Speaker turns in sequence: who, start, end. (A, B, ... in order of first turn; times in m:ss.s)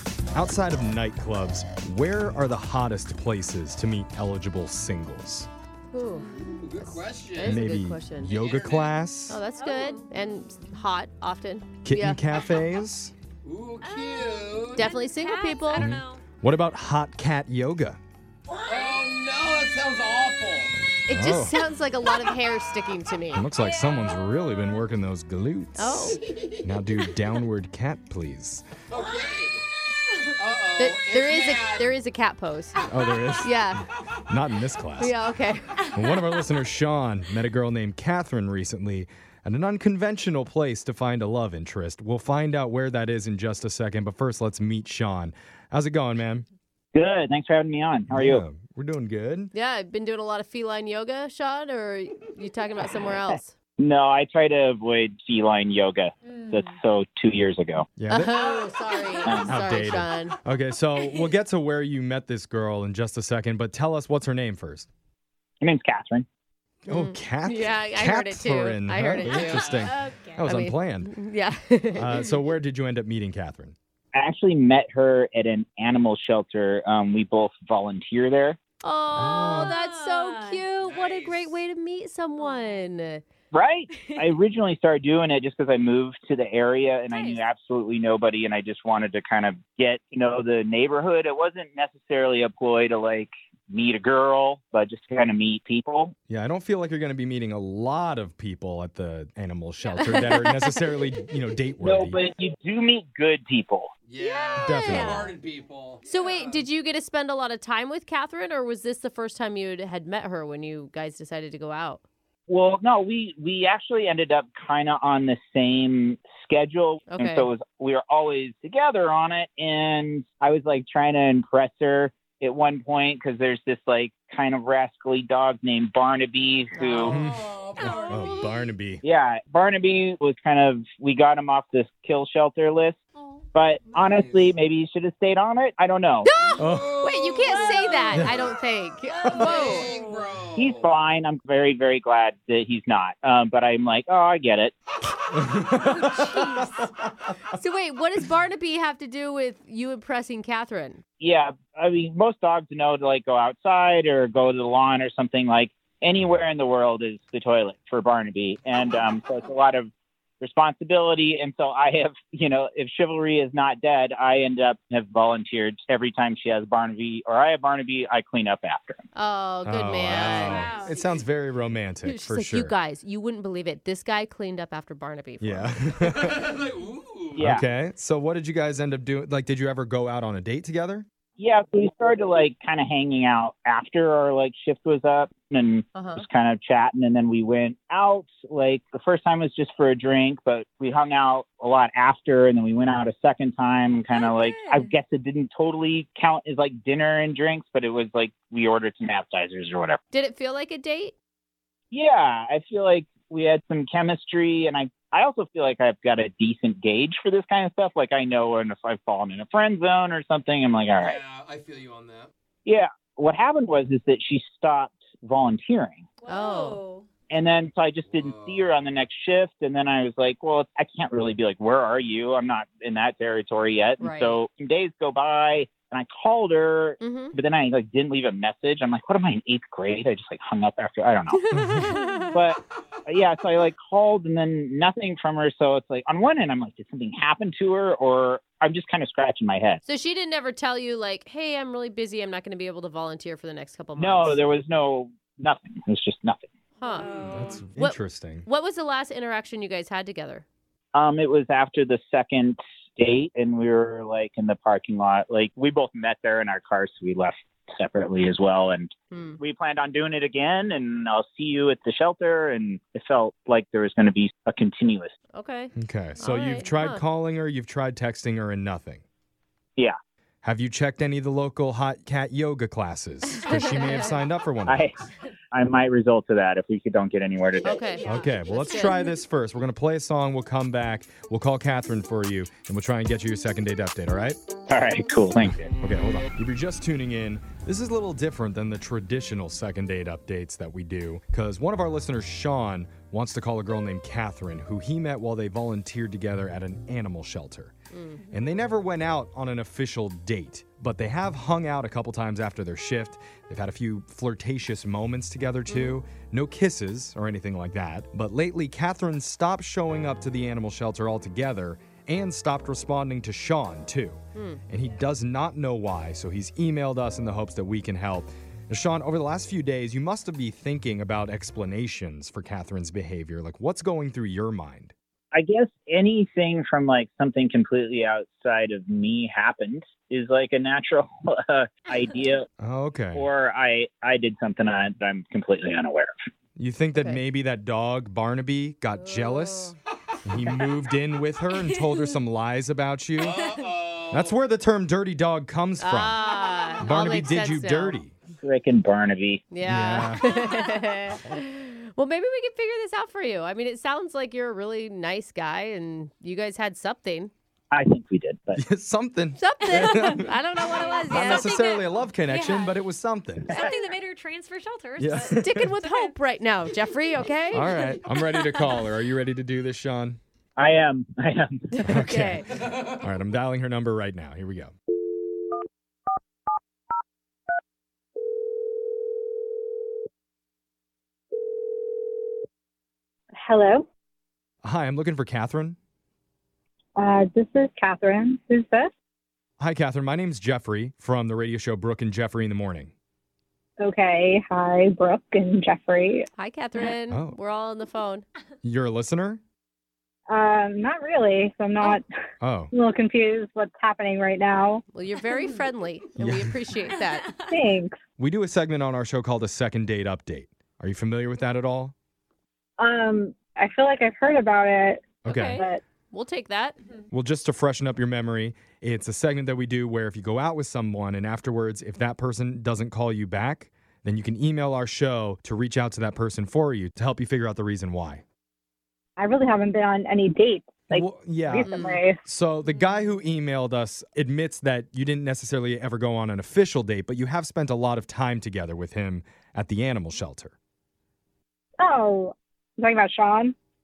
0:00.3-0:05.5 A
0:05.9-0:06.3 B
0:06.2-0:06.5 C
0:06.4-0:07.5 D
0:07.3-0:08.4 B
0:07.4-0:09.4 A
0:08.3-0:08.9 D
0:09.3-0:12.2 B
0:09.6-0:10.1 C
0:11.8-0:13.1 A
0:13.4-0:14.9 D
0:13.8-0:16.2 C
0:14.7-0:15.9 B
0:15.7-0:18.0 A
0:18.5-0:20.7 D
0:21.0-0:21.6 A
0:21.1-0:23.4 B
0:23.3-0:28.6 A
0:23.6-0:24.2 C
0:25.8-0:26.2 B
0:26.3-0:26.6 D
0:28.9-0:29.6 D
0:30.3-0:32.0 D
0:30.8-0:32.8 B
0:32.9-0:35.2 A
0:33.0-0:33.3 D
0:33.4-0:33.8 B
0:35.0-0:35.8 B
0:35.9-0:46.4 A
0:46.9-0:48.4 E
0:48.1-0:49.5 A
0:49.5-0:53.5 B
0:53.8-0:57.9 E
0:56.3-0:56.6 C
0:58.0-0:58.3 A
0:58.1-1:00.4 B
0:58.3-0:59.4 C
0:59.2-0:59.6 E
0:59.5-1:04.9 A
1:05.6-1:06.2 E
1:06.9-1:11.1 A
1:06.9-1:09.7 B
1:09.3-1:09.9 D
1:09.8-1:10.4 C
1:10.4-1:12.3 B
1:11.9-1:13.8 A
1:14.1-1:18.6 E
1:18.8-1:23.2 B
1:19.1-1:19.7 A
1:19.5-1:20.7 C
1:20.8-1:21.6 D
1:22.4-1:22.8 C
1:23.5-1:36.1 E
1:27.1-1:27.4 C
1:36.3-1:42.2 A
1:39.9-1:40.8 B
1:41.8-1:43.9 E
1:44.1-1:46.6 D
1:44.2-1:44.9 C
1:44.6-1:45.3 A
1:44.7-1:45.3 B
1:46.0-1:52.0 B
1:52.5-2:07.2 E
1:57.1-1:57.5 B
2:06.7-2:07.2 B
2:07.0-2:09.0 A
2:07.1-2:08.6 D
2:09.0-2:13.0 E
2:13.5-2:16.3 E
2:13.9-2:14.6 D
2:16.2-2:19.9 B
2:16.5-2:18.5 D
2:16.6-2:17.0 A
2:19.1-2:20.9 D
2:19.3-2:20.2 C
2:20.5-2:24.7 E
2:25.3-2:26.8 A
2:25.7-2:26.7 C
2:27.5-2:31.0 B
2:31.2-2:39.9 E
2:40.4-2:49.0 E
2:49.1-2:50.7 B
2:49.6-2:52.7 A
2:50.5-2:50.9 C
2:52.0-2:55.8 B
2:55.4-2:56.4 A
2:56.1-2:57.4 D
2:57.3-2:57.6 E
2:57.4-3:01.0 A
3:01.4-3:20.0 E
3:05.9-3:06.2 B
3:14.1-3:14.9 C
3:20.1-3:21.1 B
3:21.9-3:31.2 E
3:31.0-3:32.3 D
3:32.6-3:36.1 E
3:36.2-3:37.1 C
3:36.3-3:36.8 B
3:37.3-3:51.4 E
3:38.1-3:38.8 D
3:44.0-3:44.4 B
3:47.0-3:47.3 B
3:51.3-3:52.4 B
3:51.5-3:51.9 A
3:51.9-3:52.3 C
3:52.3-3:59.8 E
3:59.8-4:04.4 B
4:04.0-4:06.5 E
4:06.8-4:07.1 B
4:06.8-4:07.6 C
4:07.3-4:08.4 A
4:07.8-4:10.4 B
4:10.9-4:25.1 E
4:19.1-4:19.4 B
4:25.3-4:27.0 B
4:25.7-4:29.0 A
4:30.4-4:34.9 A
4:33.5-4:34.2 B
4:34.7-4:35.0 E
4:35.5-4:37.8 E
4:37.6-4:39.0 B
4:37.9-4:38.3 C
4:38.1-4:44.4 A
4:44.7-4:45.7 E
4:45.8-4:57.7 A
4:57.9-4:58.3 B
4:58.3-5:24.9 A
5:05.7-5:06.0 B
5:14.3-5:14.6 B
5:25.3-5:32.5 E
5:32.6-5:33.2 A
5:33.1-5:36.1 E
5:36.6-5:39.7 A
5:36.9-5:37.2 B
5:39.0-5:39.7 B
5:40.2-5:43.5 A
5:43.2-5:44.3 D
5:44.1-5:46.2 A
5:45.8-5:48.0 B
5:46.2-5:46.8 C
5:46.8-5:48.1 A
5:48.4-5:49.4 E
5:49.5-5:57.3 B
5:49.6-5:50.2 A
5:57.7-5:58.6 E
5:58.5-6:00.4 A
5:59.4-6:01.7 B
5:59.9-6:00.2 C
6:00.7-6:02.8 C
6:01.1-6:03.5 A
6:03.5-6:03.8 E
6:03.5-6:06.1 C
6:05.0-6:05.7 A
6:05.4-6:07.8 B
6:07.5-6:10.2 A
6:10.6-6:11.8 E
6:11.7-6:12.4 B
6:11.8-6:14.7 A
6:12.5-6:13.0 D
6:23.4-6:23.8 F
6:24.6-6:25.8 A
6:27.0-6:28.9 F
6:29.6-6:32.9 A
6:33.8-6:36.3 F
6:36.4-6:38.2 B
6:37.1-6:37.4 A
6:38.6-6:39.4 A
6:40.3-6:42.0 F
6:42.4-6:42.7 A
6:42.7-6:44.8 F
6:44.9-6:47.2 B
6:46.2-6:46.6 A
6:46.9-6:47.5 C
6:47.5-6:48.0 F
6:48.2-6:51.9 A
6:52.8-6:55.8 F
6:55.2-6:55.6 A
6:55.2-6:56.8 B
6:57.1-7:08.2 A
7:09.2-7:12.2 F
7:10.9-7:20.5 A
7:11.6-7:12.0 B
7:21.8-7:23.5 F